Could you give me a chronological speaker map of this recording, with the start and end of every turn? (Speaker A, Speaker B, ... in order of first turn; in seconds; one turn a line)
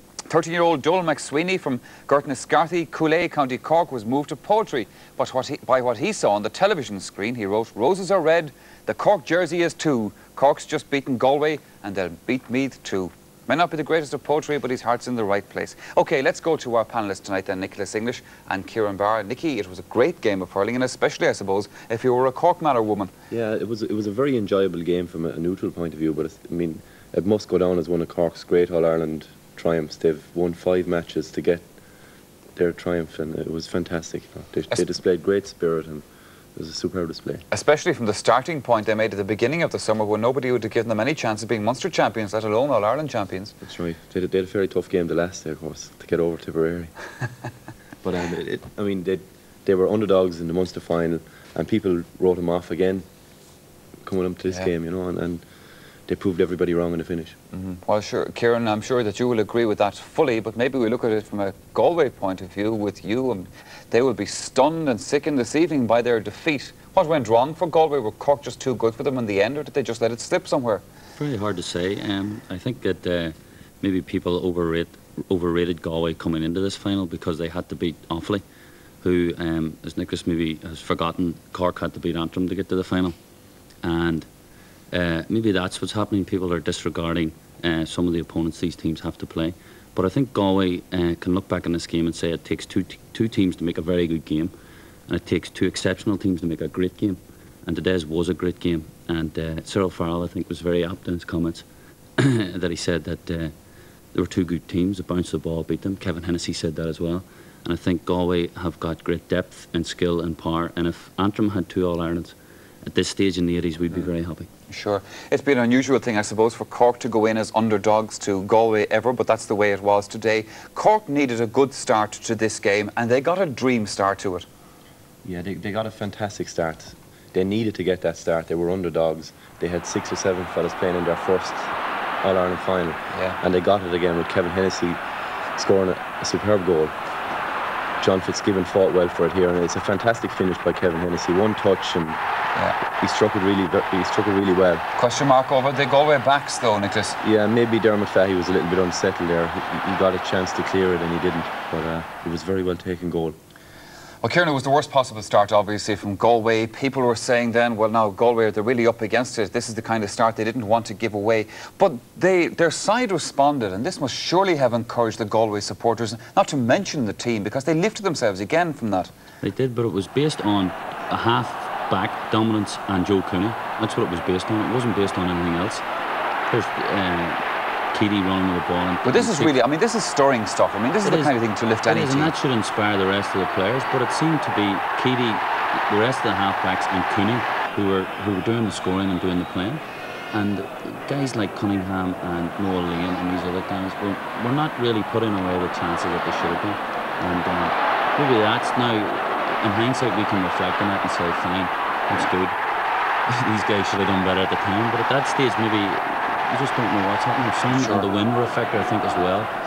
Speaker A: 0.3-23.1
Speaker B: 23.3-31.7
Speaker B: 32.5-37.5
Speaker A: 37.5-43.6
Speaker B: 43.6-46.9
Speaker B: 48.0-53.1
Speaker B: 54.0-55.5
Speaker B: 56.1-57.4
Speaker A: 57.5-70.8
Speaker C: 71.2-78.4
Speaker C: 79.0-83.2
Speaker C: 83.8-84.3
Speaker C: 84.9-94.5
Speaker C: 95.1-101.7
Speaker C: 102.2-103.5
Speaker C: 104.1-114.5
Speaker A: 114.7-124.5
Speaker B: 125.2-135.0
Speaker A: 133.1-133.4
Speaker B: 135.6-136.9
Speaker B: 138.0-142.2
Speaker B: 142.9-144.8
Speaker A: 145.0-147.2
Speaker B: 147.2-153.4
Speaker A: 154.2-169.1
Speaker C: 169.4-175.8
Speaker C: 176.5-179.6
Speaker A: 179.0-182.3
Speaker C: 181.0-202.6
Speaker C: 203.3-209.5
Speaker A: 207.7-208.1